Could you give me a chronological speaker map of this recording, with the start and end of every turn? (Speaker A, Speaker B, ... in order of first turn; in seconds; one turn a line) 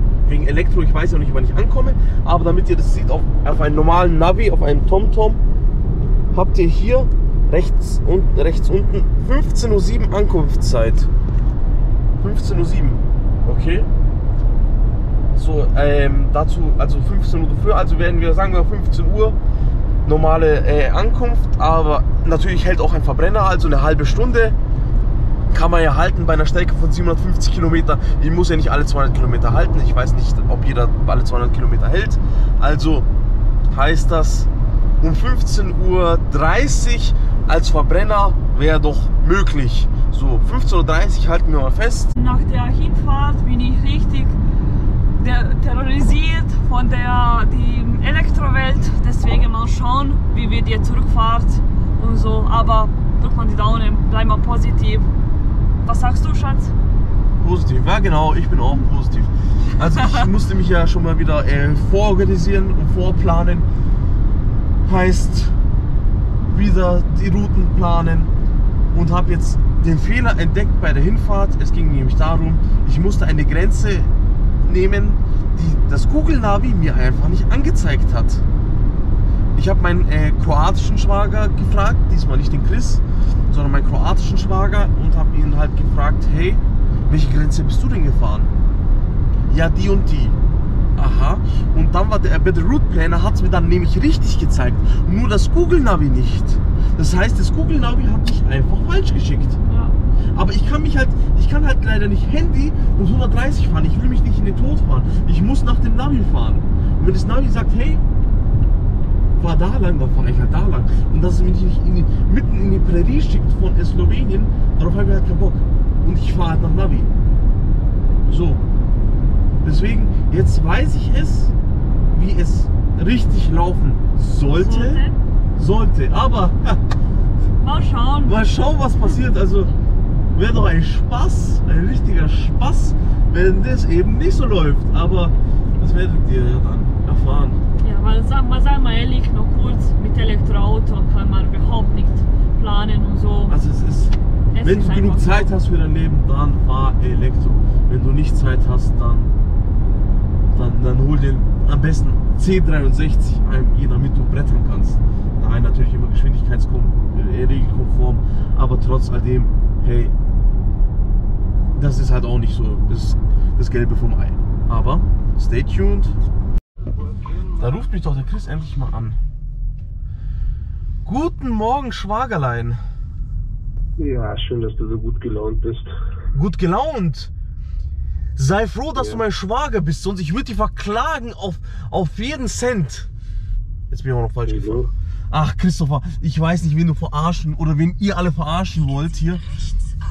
Speaker A: 0.3-5.4
Speaker A: 6.3-11.1
Speaker A: 12.2-13.9
Speaker A: 15.3-19.4
Speaker A: 20.1-24.6
Speaker A: 25.5-33.1
Speaker A: 33.7-34.5
Speaker A: 35.0-42.1
Speaker B: 42.2-44.4
Speaker B: 45.2-55.1
Speaker B: 55.9-56.7
Speaker A: 57.4-63.7
Speaker A: 64.8-65.5
Speaker A: 66.5-68.3
Speaker A: 68.9-74.1
Speaker A: 74.6-78.4
Speaker A: 79.5-88.5
Speaker A: 89.5-90.4
Speaker A: 91.0-99.6
Speaker B: 99.7-100.0
Speaker A: 100.3-108.0
Speaker A: 109.4-117.1
Speaker A: 118.3-118.6
Speaker A: 119.6-121.5
Speaker A: 122.1-125.0
Speaker B: 124.5-125.2
Speaker A: 125.6-126.8
Speaker B: 127.6-128.4
Speaker A: 128.2-129.7
Speaker A: 130.3-137.6
Speaker B: 137.8-143.5
Speaker A: 143.5-149.3
Speaker B: 144.6-145.5
Speaker A: 150.5-160.1
Speaker A: 161.8-166.2
Speaker A: 167.5-169.2
Speaker A: 171.1-172.8
Speaker C: 174.0-175.9
Speaker A: 176.3-177.3
Speaker A: 178.4-183.1
Speaker C: 179.0-179.2
Speaker A: 183.9-189.4
Speaker C: 184.5-184.9